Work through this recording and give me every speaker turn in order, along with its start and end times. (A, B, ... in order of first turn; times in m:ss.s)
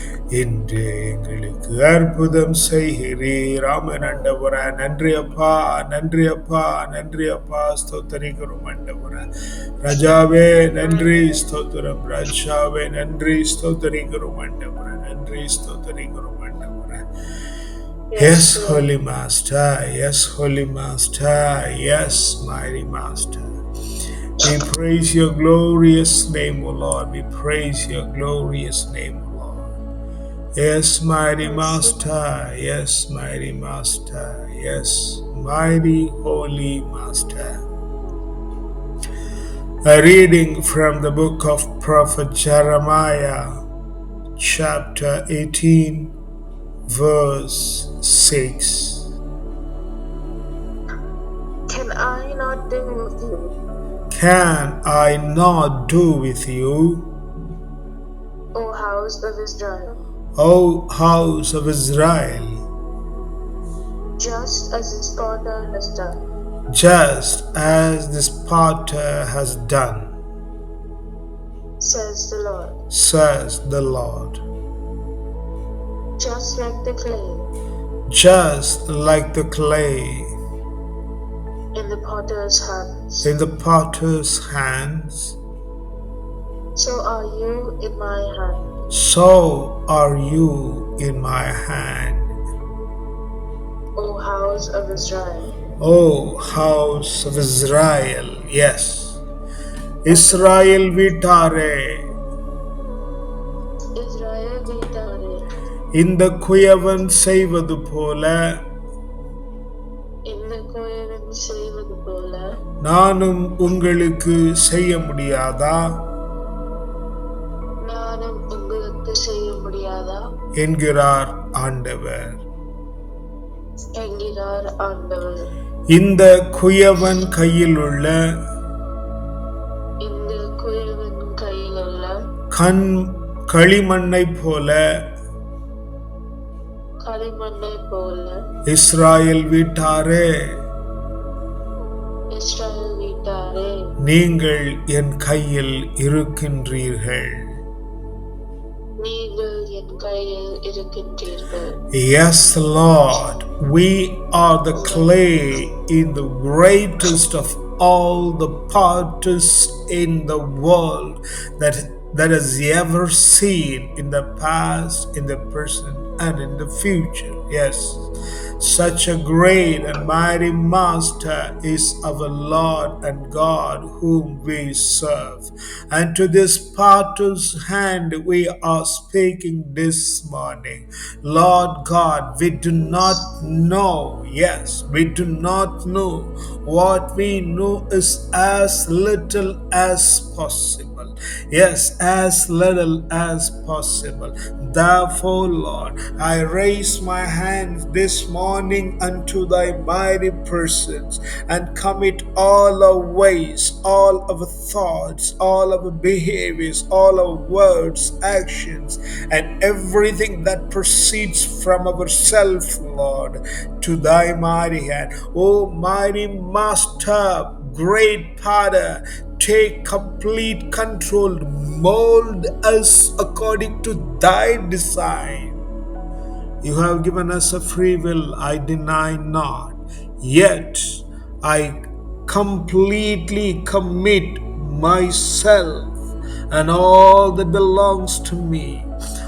0:00.4-0:09.2 A
0:09.8-0:17.0 A
0:18.1-0:18.8 B
0:18.2-0:23.5 A
0:24.4-0:29.7 A
0:30.6-0:37.6 A
0:31.4-0:32.1 B
0:39.8-0:43.6 A
0:44.4-0:46.1 A
0:46.9-0:49.1 A
0:51.7-0:53.5 B
0:54.1-0:57.1 A
0:58.5-1:00.0 B
1:00.4-1:02.6 A
1:04.2-1:06.2 B
1:06.7-1:10.2 A
1:11.8-1:12.8 B
1:12.9-1:14.4 A
1:16.2-1:17.5 B
1:18.1-1:20.3 A
1:21.8-1:23.2 B
1:23.2-1:25.4 A
1:26.8-1:28.6 B
1:28.9-1:32.3 A
1:34.0-1:35.5 B
1:35.8-1:39.2 A
1:40.0-1:42.1 A
1:40.1-1:40.7 B
1:44.0-1:45.4 B
1:46.0-1:48.6 A
1:50.3-1:52.4 B
1:52.8-1:56.0 A
1:57.8-2:00.2 B
2:00.6-2:02.4 A
2:04.0-2:05.5 B
2:05.9-2:08.4 A
2:10.0-2:12.2 B
2:12.5-2:15.0 A
2:17.0-2:18.4 B
2:18.7-2:20.6 A
2:22.3-2:23.8 B
2:24.0-2:27.6 A
2:29.0-2:31.8 B
2:31.9-2:48.1 A
2:48.6-3:45.6 A
3:46.6-3:56.0 A
3:56.5-3:58.9 A